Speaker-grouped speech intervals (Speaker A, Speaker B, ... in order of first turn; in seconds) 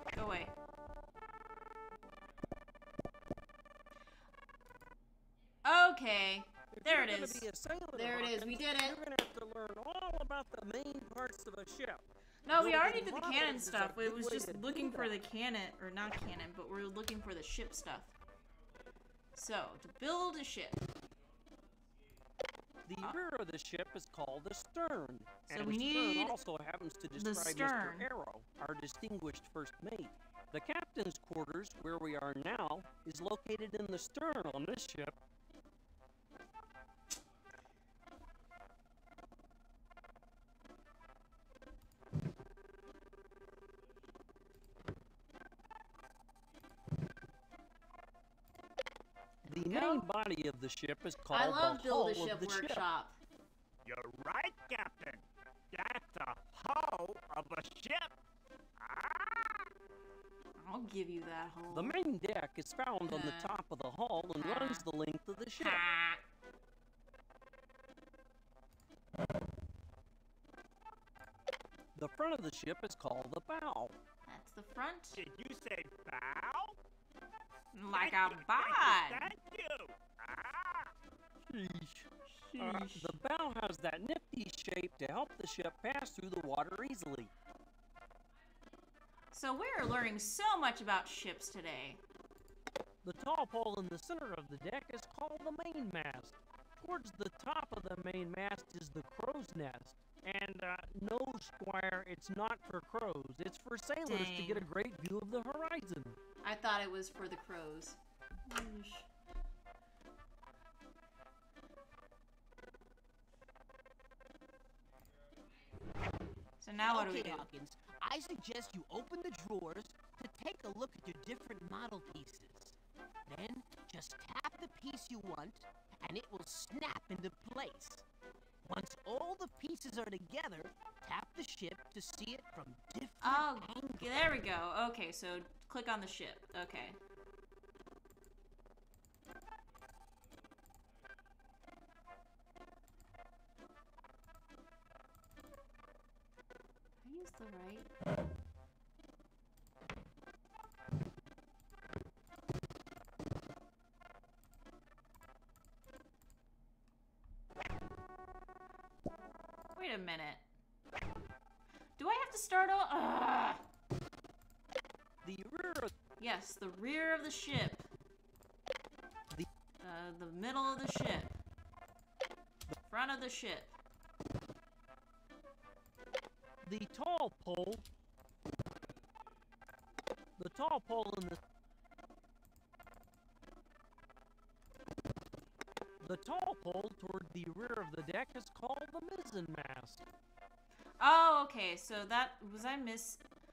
Speaker A: 0.1-0.5, 5.6-9.0, 12.4-18.1, 19.4-20.8, 25.5-26.4, 27.1-28.1, 49.5-50.1, 51.3-53.1, 60.6-62.0, 63.0-63.5, 64.4-64.9, 65.6-66.2, 74.3-75.2, 77.7-79.3, 82.3-83.2, 89.3-92.0, 104.0-104.7, 106.4-109.1, 116.6-117.5, 133.2-137.0, 147.0-147.9, 159.8-160.4, 162.0-163.6, 166.2-167.9, 169.8-171.3, 172.9-173.7, 191.0-193.2
Speaker B: 6.7-12.0, 12.6-15.1, 22.9-35.2, 49.5-52.8, 61.7-65.8, 72.0-74.0, 81.4-87.3, 93.0-106.2, 165.2-165.9, 176.6-177.8, 180.4-181.4, 186.0-190.1
Speaker C: 53.9-58.1, 58.8-59.7, 75.1-76.8, 77.9-80.9
Speaker D: 116.8-122.7, 123.3-128.0, 128.7-134.3